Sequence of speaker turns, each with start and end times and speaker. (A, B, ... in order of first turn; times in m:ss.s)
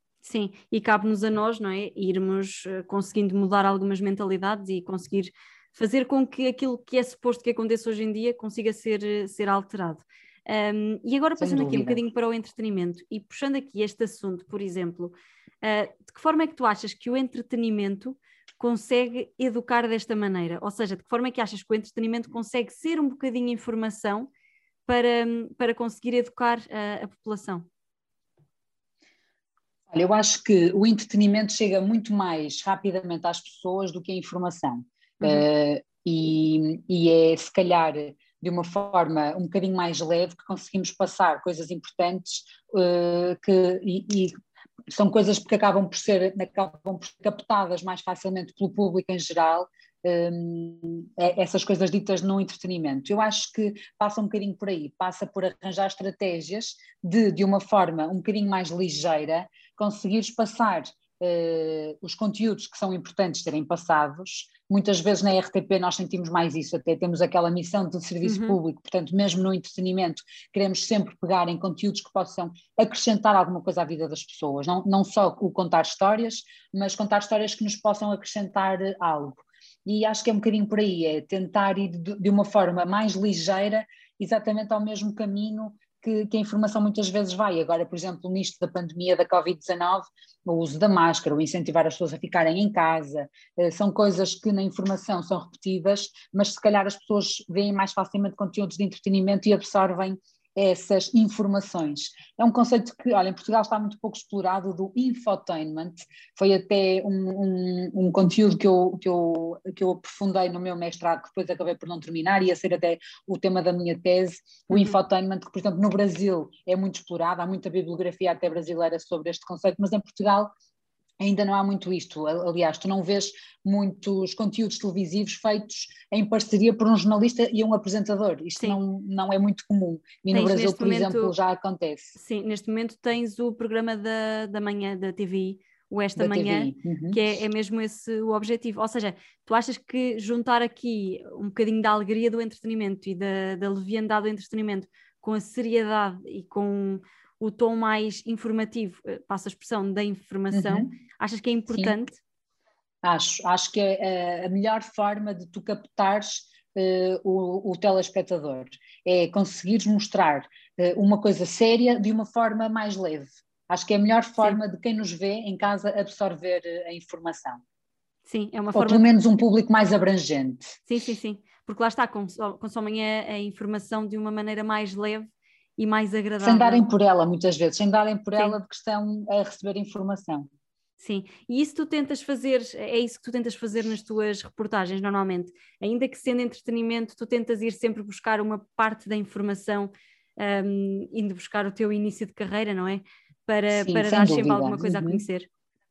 0:00.2-0:24.3 A
0:11.4-0:12.0 B
0:24.9-0:27.7 A
0:29.9-0:44.3 B
0:35.2-0:35.4 A
0:44.9-2:00.5 B
1:08.2-1:08.6 A
1:54.7-1:55.0 A
2:01.2-2:12.2 B
2:10.3-2:11.3 A
2:12.2-2:32.2 A
2:16.2-2:17.2 B
2:30.5-2:30.9 B
2:33.0-2:47.6 B
2:48.2-2:49.0 A
2:48.7-2:50.8 B
2:50.9-2:56.8 A
2:56.4-3:00.5 B
3:01.0-3:15.5 A
3:13.7-3:15.2 B